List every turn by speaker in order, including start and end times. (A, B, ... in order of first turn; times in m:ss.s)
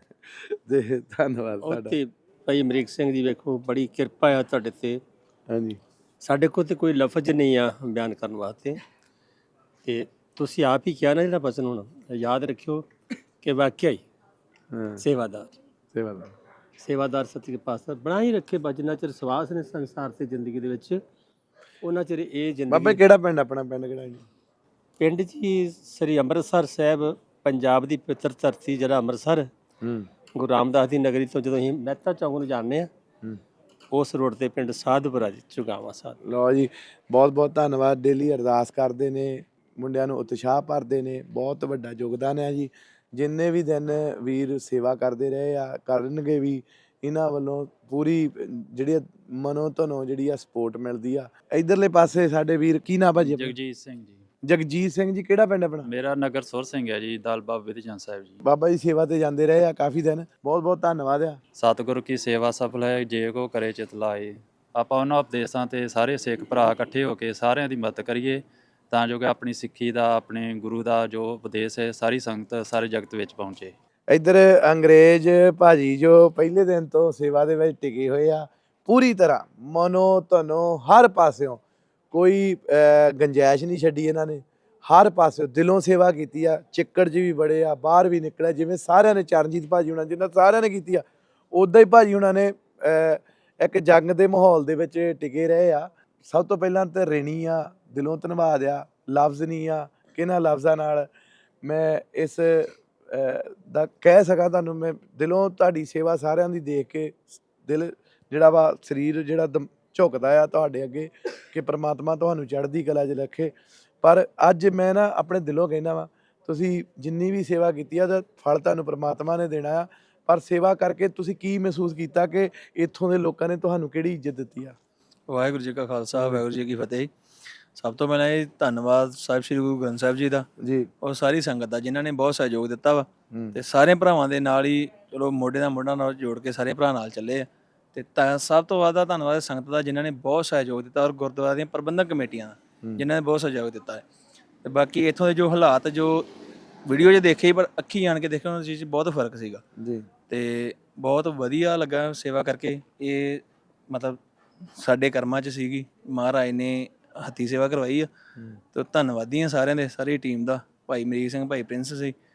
0:00.3-0:02.0 A
0:01.6-0:05.0 B
0:05.5-0:05.8 A
0:06.2-0:08.8 B
0:09.8-0:12.8 B
0:13.4-0:14.0 B
0:14.7-0:15.0 A
0:15.0-0:15.5 B
0:15.9-0:16.3 A
0:16.8-0:21.0 B
0:21.8-0:23.0 B
0:22.7-0:24.2 A
0:25.0-0:29.5 B
0:29.8-0:30.1 A
0:30.3-0:32.9 B
0:33.9-0:36.2 B
0:36.2-0:53.5 A
0:53.2-0:54.2 C
0:54.4-0:55.9 A
0:55.9-0:58.4 C
0:58.4-1:01.4 A
1:01.5-1:13.7 C
1:14.1-1:21.6 A
1:22.1-1:41.1 A
1:41.6-2:04.8 A
2:05.3-2:07.1 D
2:06.1-2:06.6 A
2:07.8-2:10.5 D
2:10.6-2:10.9 A
2:11.0-2:24.0 D
2:13.3-2:13.6 A
2:24.6-2:26.2 D
2:26.8-2:29.6 D
2:29.8-2:30.1 A
2:30.3-2:34.2 D
2:34.8-2:38.1 D
2:38.7-2:42.1 D